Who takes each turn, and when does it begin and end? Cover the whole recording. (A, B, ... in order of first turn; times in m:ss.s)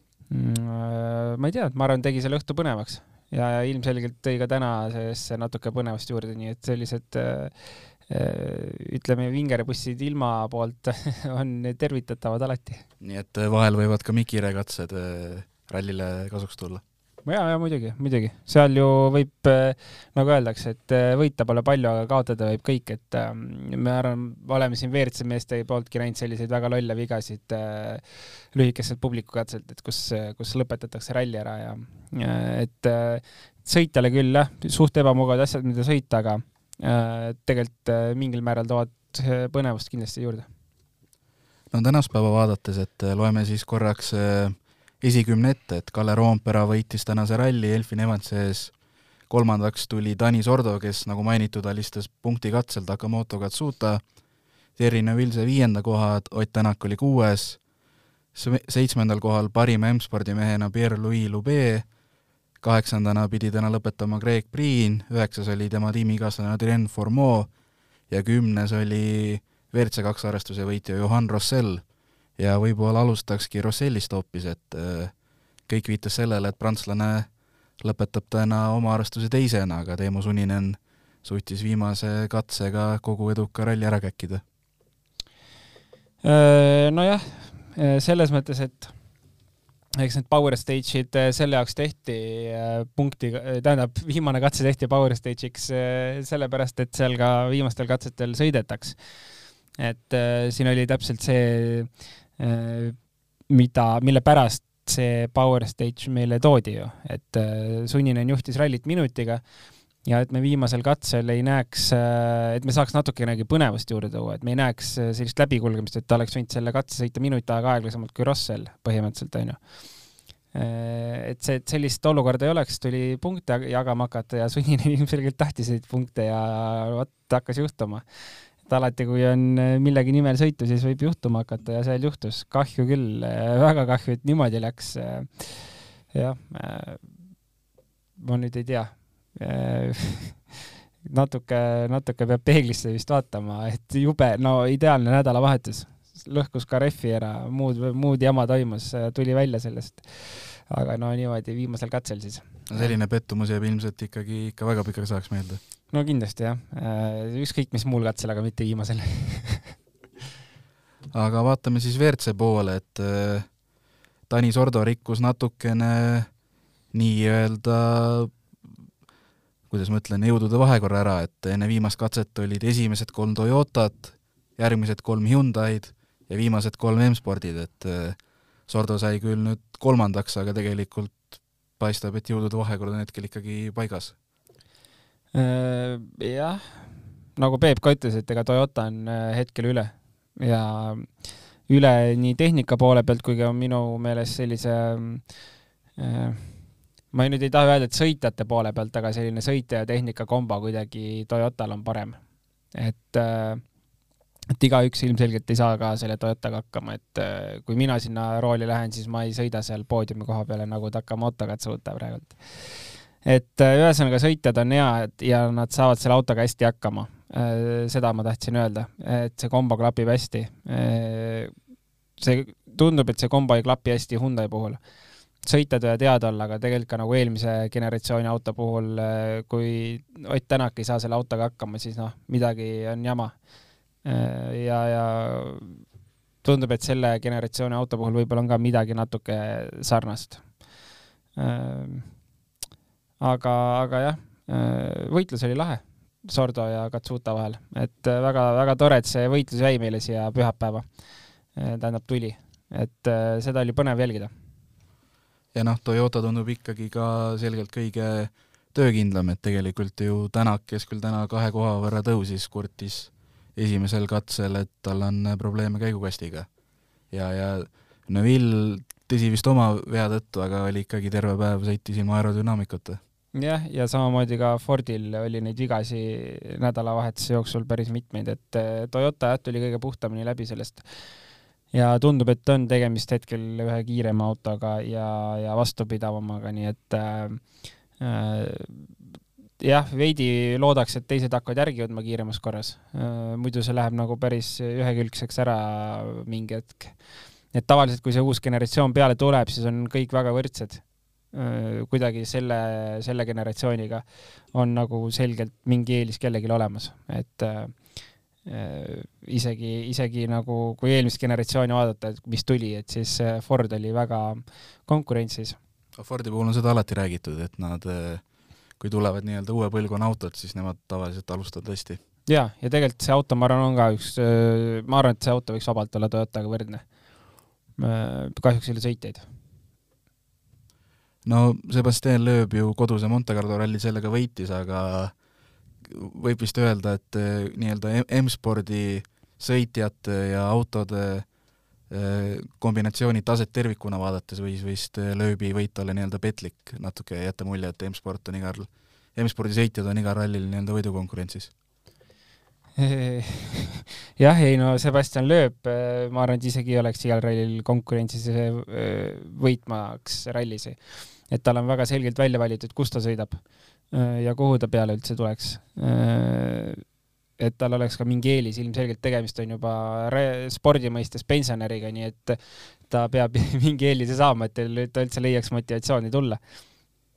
0:00.3-0:07.6 A
0:08.1-0:12.8 A
0:13.0-0:16.8 B
0:17.2-0:40.5 A
0:41.7-0:48.7 B
0:49.3-0:54.0 B
0:54.8-0:57.6 B
0:58.4-1:01.9 B
1:02.6-1:07.5 B
1:08.1-1:11.8 B
1:12.4-1:15.1 B
1:15.7-1:17.3 B
1:17.8-1:24.4 B
1:26.2-1:28.9 A
1:30.0-1:39.0 A
1:39.8-1:43.0 A
1:43.5-1:49.4 A
1:50.0-1:59.6 A
2:00.5-2:08.0 A
2:08.6-2:17.1 A
2:18.2-2:33.0 A
2:32.7-2:35.6 B
2:35.9-2:39.8 A
2:41.1-2:43.5 B
2:44.3-2:46.3 B
2:46.9-2:48.7 B
2:49.7-3:04.2 B
3:05.3-3:11.2 A
3:11.7-3:15.3 A
3:16.0-3:16.6 A
3:17.1-3:22.2 A
3:22.7-3:23.6 A
3:24.6-3:41.5 A
3:42.2-3:44.8 A
3:45.4-3:53.4 A
3:54.0-3:55.8 A
3:56.4-4:00.5 A
4:01.4-4:02.1 A
4:03.2-4:10.8 A
4:11.5-4:14.3 A
4:15.5-4:26.5 B
4:27.1-4:33.0 B
4:33.4-4:40.8 A
4:41.7-4:47.5 A
4:48.0-4:49.0 A
4:49.6-4:57.0 A
4:57.5-5:07.8 A
5:08.4-5:15.6 A
5:16.0-5:18.2 B
5:18.8-5:22.0 B
5:22.3-5:26.9 A
5:27.8-5:29.2 A
5:31.2-5:35.1 B
5:35.8-5:41.3 B
5:41.9-5:51.5 B
5:52.8-6:06.8 A
6:07.4-6:16.4 A